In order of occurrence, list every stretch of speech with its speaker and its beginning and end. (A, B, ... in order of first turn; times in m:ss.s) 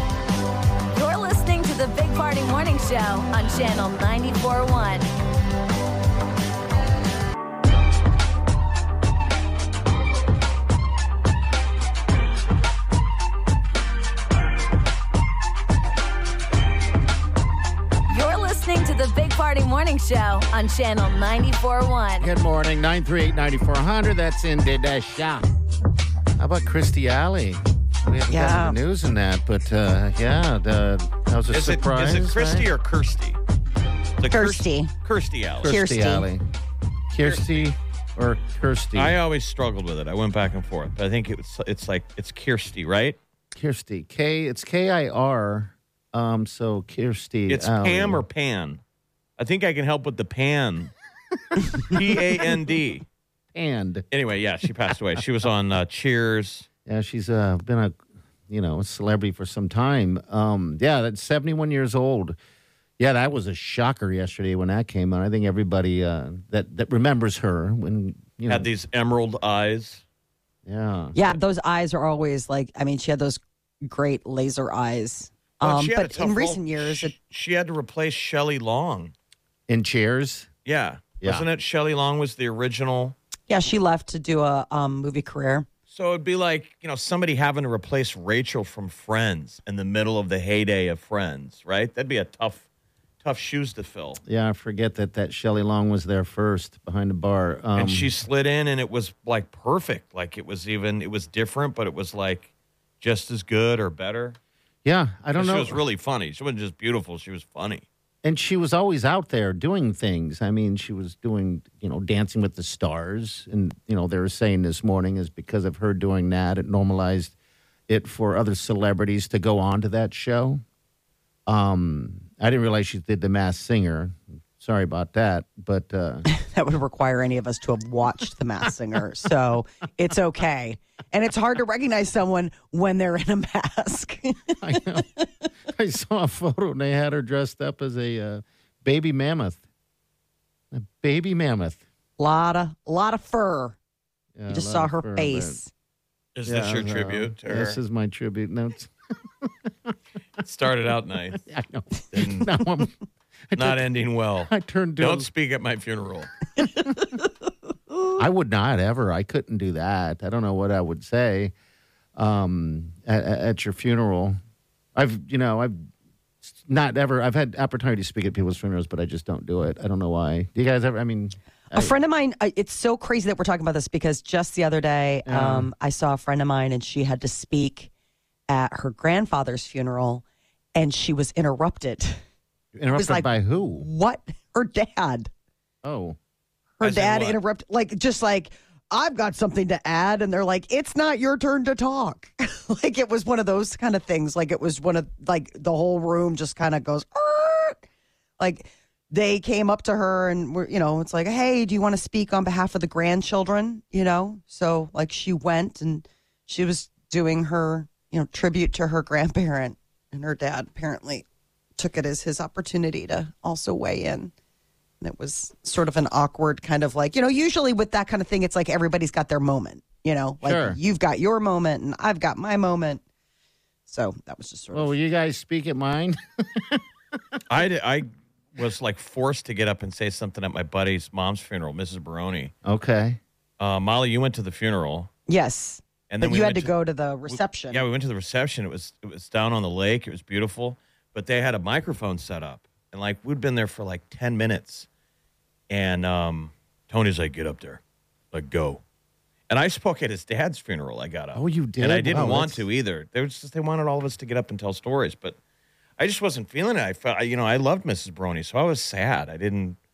0:00.9-0:05.1 A
0:18.1-0:22.3 A
0:22.2-0:25.4 B
0:26.4-0:32.7 B
0:28.3-0:28.8 C
0:31.5-0:33.4 D
0:34.2-0:35.7 D
0:34.3-0:34.9 C
0:35.6-0:36.4 B
0:35.6-0:36.3 C
0:37.1-0:39.2 B
0:37.2-0:37.7 D
0:39.0-0:43.2 D
0:43.6-0:48.2 B
0:47.5-0:48.8 D
0:49.4-0:50.9 D
0:51.8-0:53.0 D
0:53.5-0:54.0 B
0:54.1-0:56.7 D
0:56.8-0:58.0 B
0:58.5-1:02.4 B
1:03.0-1:08.7 B
1:08.5-1:10.0 D
1:10.6-1:11.2 B
1:11.1-1:17.1 C
1:15.6-1:19.1 D
1:19.7-1:20.5 B
1:20.6-1:23.1 D
1:21.2-1:21.4 B
1:23.5-1:25.7 C
1:25.9-1:32.6 D
1:33.2-1:34.2 D
1:34.2-1:38.1 B
1:37.8-1:42.5 D
1:43.0-1:44.4 D
1:44.8-1:45.8 B
1:45.3-1:47.8 D
1:48.2-1:57.3 B
1:57.9-2:00.6 B
2:01.5-2:06.2 B
2:06.3-2:14.6 C
2:14.6-2:15.1 B
2:15.7-2:19.6 B
2:20.7-2:21.8 B
2:22.2-2:23.8 C
2:24.4-2:25.6 B
2:24.5-2:25.7 C
2:26.4-2:27.8 D
2:26.4-2:28.9 B
2:29.4-2:29.9 B
2:30.4-2:31.4 D
2:31.4-2:33.0 B
2:32.1-2:32.5 D
2:33.5-2:33.8 B
2:33.5-2:36.3 D
2:34.4-2:35.3 B
2:38.2-2:41.5 B
2:42.2-2:44.4 B
2:45.0-2:45.8 B
2:46.4-2:51.9 B
2:51.7-2:57.9 C
2:55.2-2:55.7 B
2:58.5-3:00.2 C
3:00.7-3:02.2 C
3:02.7-3:03.8 B
3:02.9-3:05.3 C
3:05.8-3:06.2 B
3:06.8-3:17.8 C
3:06.8-3:07.4 D
3:18.4-3:31.2 C
3:31.8-3:34.3 C
3:35.0-3:43.0 C
3:40.4-3:40.8 B
3:43.9-3:45.0 C
3:44.7-3:46.8 B
3:47.5-3:52.5 D
3:52.6-3:53.2 B
3:53.6-3:55.1 D
3:55.3-3:57.8 C
3:56.1-3:56.7 D
3:57.3-4:04.9 D
4:05.7-4:07.8 D
4:08.3-4:08.8 D
4:09.5-4:15.4 D
4:11.3-4:12.6 B
4:16.0-4:19.8 D